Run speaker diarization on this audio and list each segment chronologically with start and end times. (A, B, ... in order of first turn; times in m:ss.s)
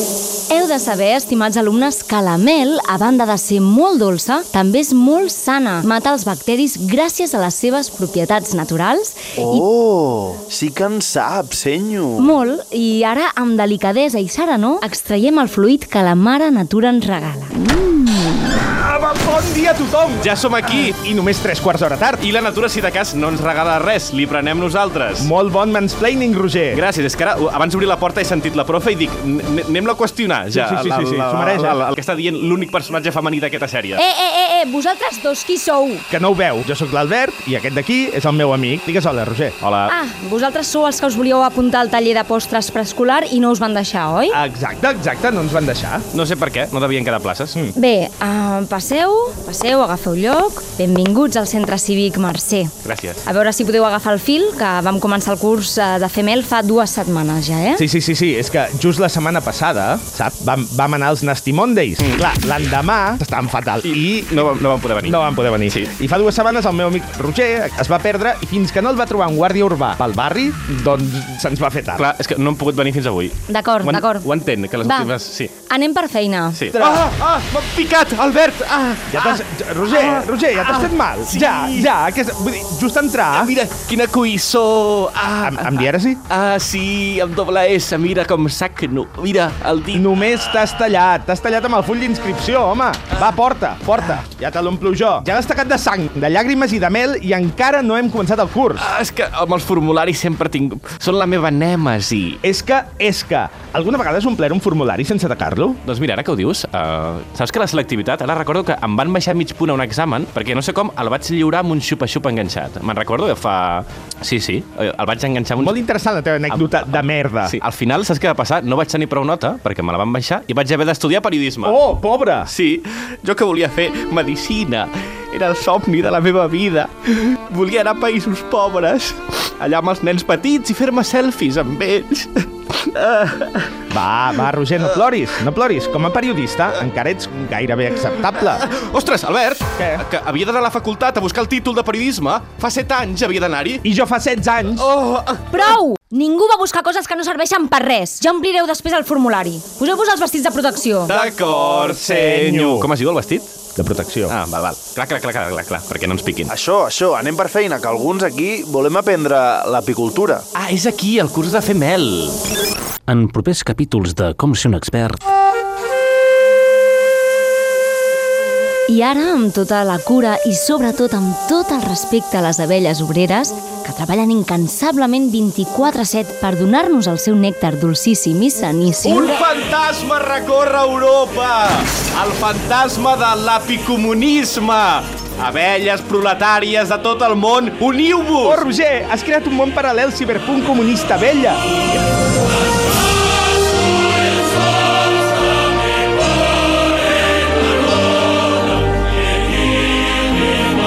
0:00.5-0:09.6 A
0:09.4-0:12.4 B
0:12.2-0:18.4 A
0:18.6-0:20.2 C
0:20.2-0:21.0 D
0:20.8-0:22.2 C
0:22.2-0:25.3 D
0:25.2-0:26.8 C
0:26.7-0:34.0 D
0:30.5-0:31.8 C
0:34.0-0:36.0 A
0:36.1-0:39.5 C
0:39.6-0:39.9 D
0:39.9-0:44.4 A
0:44.3-0:46.0 C
0:46.1-0:47.6 D
0:47.8-0:52.7 A
0:52.8-0:53.2 D
0:53.2-0:57.8 A
0:57.8-1:04.3 C
1:03.8-1:05.9 D
1:05.0-1:12.1 C
1:12.0-1:15.5 D
1:13.5-1:14.3 A
1:14.8-1:16.6 A
1:16.5-1:21.9 D
1:16.7-1:17.1 C
1:19.1-1:23.5 C
1:23.3-1:30.1 D
1:25.4-1:26.2 C
1:29.9-1:38.8 C
1:38.8-1:42.4 D
1:42.4-1:45.8 C
1:45.8-1:55.8 D
1:55.6-1:57.6 C
1:56.5-2:01.8 D
2:01.6-2:02.5 C
2:02.4-2:13.7 D
2:13.9-2:18.6 C
2:18.2-2:23.8 D
2:23.8-2:24.9 C
2:24.8-2:25.8 D
2:25.5-2:31.1 A
2:31.1-2:33.5 D
2:31.8-2:32.9 C
2:33.8-2:34.3 C
2:34.3-2:36.5 D
2:36.5-2:40.4 B
2:40.5-2:42.4 D
2:43.1-2:45.2 E
2:48.9-2:59.4 A
2:59.0-3:08.6 D
3:08.4-3:11.6 C